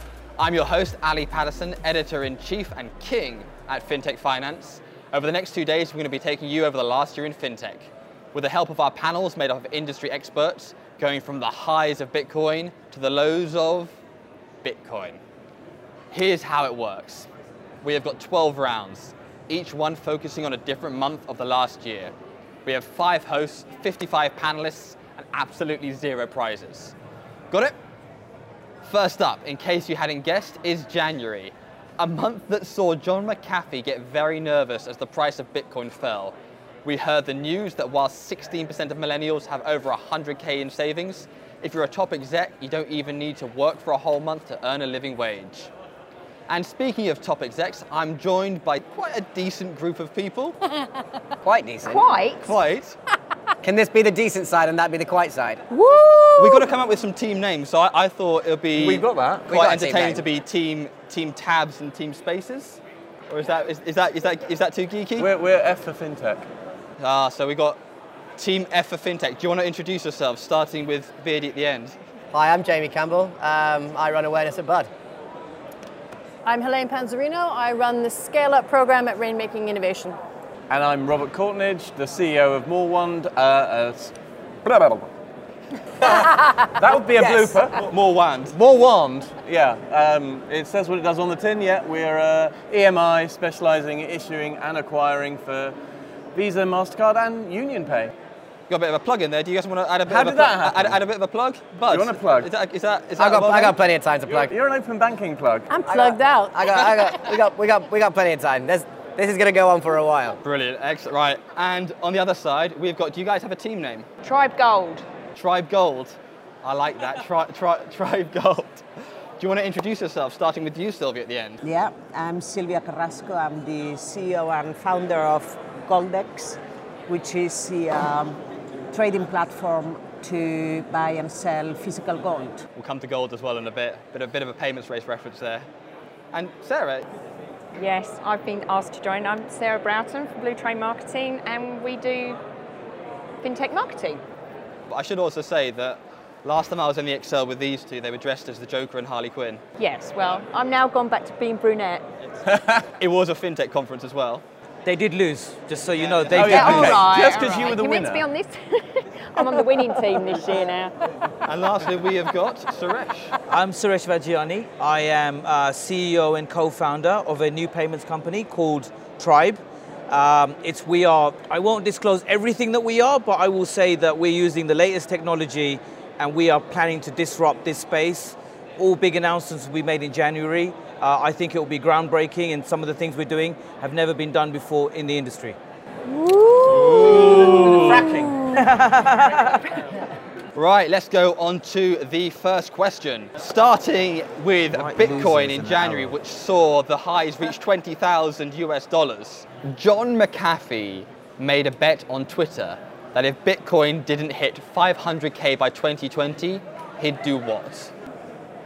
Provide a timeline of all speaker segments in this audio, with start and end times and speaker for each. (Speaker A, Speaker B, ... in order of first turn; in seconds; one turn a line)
Speaker A: 0.4-13.9
Speaker A: 14.6-15.2
Speaker A: 16.1-17.3
Speaker A: 17.8-22.1
Speaker A: 22.6-26.9
Speaker A: 27.5-27.8
Speaker A: 28.8-45.7
Speaker A: 46.5-50.6
Speaker B: 51.4-52.0
Speaker C: 51.9-52.5
Speaker A: 52.4-53.0
Speaker B: 53.6-55.6
Speaker D: 55.8-56.6
Speaker A: 56.4-65.3
Speaker E: 58.7-59.5
Speaker B: 59.5-60.2
Speaker E: 65.2-66.5
Speaker A: 67.0-67.8
Speaker A: 68.4-72.0
Speaker B: 72.3-74.9
Speaker D: 76.4-80.2
Speaker E: 80.7-85.1
Speaker E: 86.0-87.8
Speaker A: 87.8-88.6
Speaker E: 88.5-95.8
Speaker E: 96.3-98.1
Speaker A: 98.7-103.8
Speaker E: 100.1-101.0
Speaker E: 101.9-102.5
Speaker B: 103.2-104.5
Speaker E: 104.3-105.8
Speaker D: 105.7-107.1
Speaker B: 105.9-110.4
Speaker A: 110.4-114.1
Speaker C: 114.2-115.0
Speaker A: 115.3-118.8
Speaker A: 119.4-121.6
Speaker F: 121.6-128.4
Speaker F: 128.9-132.6
Speaker A: 132.8-135.7
Speaker A: 136.3-137.1
Speaker C: 137.8-142.4
Speaker C: 143.4-144.2
Speaker A: 144.9-149.6
Speaker C: 149.8-152.0
Speaker E: 152.4-152.8
Speaker A: 153.0-154.4
Speaker G: 154.8-157.0
Speaker A: 156.0-156.9
Speaker E: 156.3-158.3
Speaker C: 156.4-160.9
Speaker A: 161.5-163.4
Speaker G: 163.5-185.6
Speaker D: 186.1-187.4
Speaker A: 186.7-188.1
Speaker E: 186.9-188.2
Speaker G: 188.5-189.6
Speaker A: 190.5-207.9
Speaker G: 194.7-196.2